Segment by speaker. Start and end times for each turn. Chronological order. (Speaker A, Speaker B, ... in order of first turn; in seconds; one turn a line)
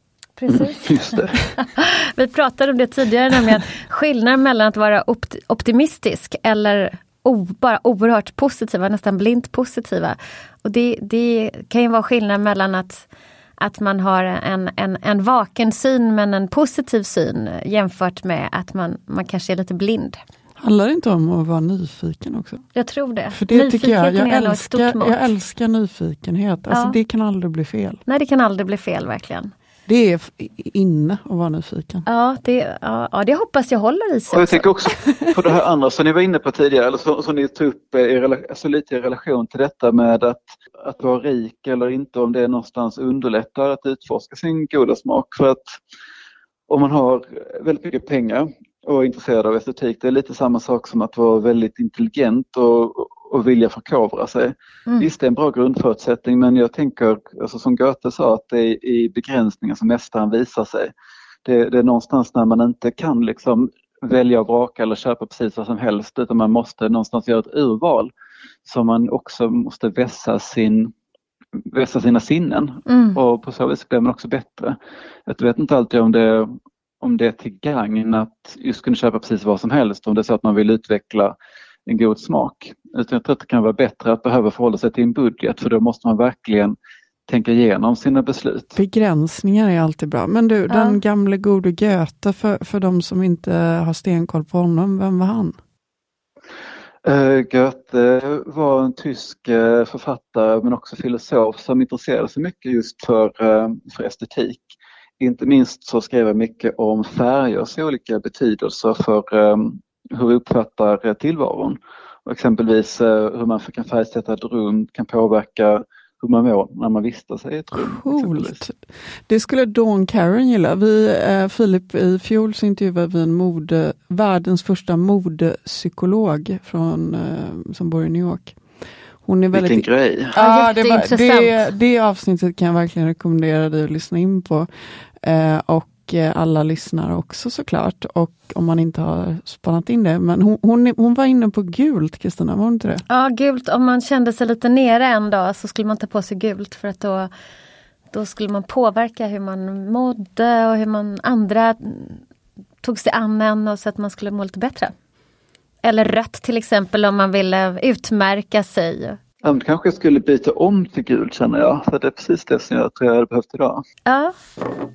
Speaker A: 0.4-0.9
Speaker B: 0.5-1.4
Speaker A: 1.6-13.1
Speaker A: 13.6-20.2
Speaker C: 20.6-22.6
Speaker A: 22.7-25.2
Speaker C: 23.3-28.0
Speaker A: 26.7-27.0
Speaker A: 28.1-29.5
Speaker C: 29.9-32.0
Speaker A: 32.1-34.6
Speaker B: 34.3-45.7
Speaker C: 35.1-35.3
Speaker B: 46.7-60.9
Speaker B: 61.4-68.1
Speaker B: 68.7-70.9
Speaker B: 71.6-81.3
Speaker A: 72.9-73.2
Speaker B: 81.8-86.8
Speaker B: 87.3-88.8
Speaker C: 88.8-95.5
Speaker A: 90.7-91.0
Speaker B: 97.0-118.6
Speaker C: 117.7-128.6
Speaker C: 129.2-134.7
Speaker B: 129.5-130.3
Speaker A: 130.3-131.7
Speaker C: 135.2-143.0
Speaker A: 143.1-147.3
Speaker A: 148.1-152.2
Speaker A: 152.8-154.9
Speaker A: 155.8-159.2
Speaker B: 159.4-163.8
Speaker A: 164.1-164.3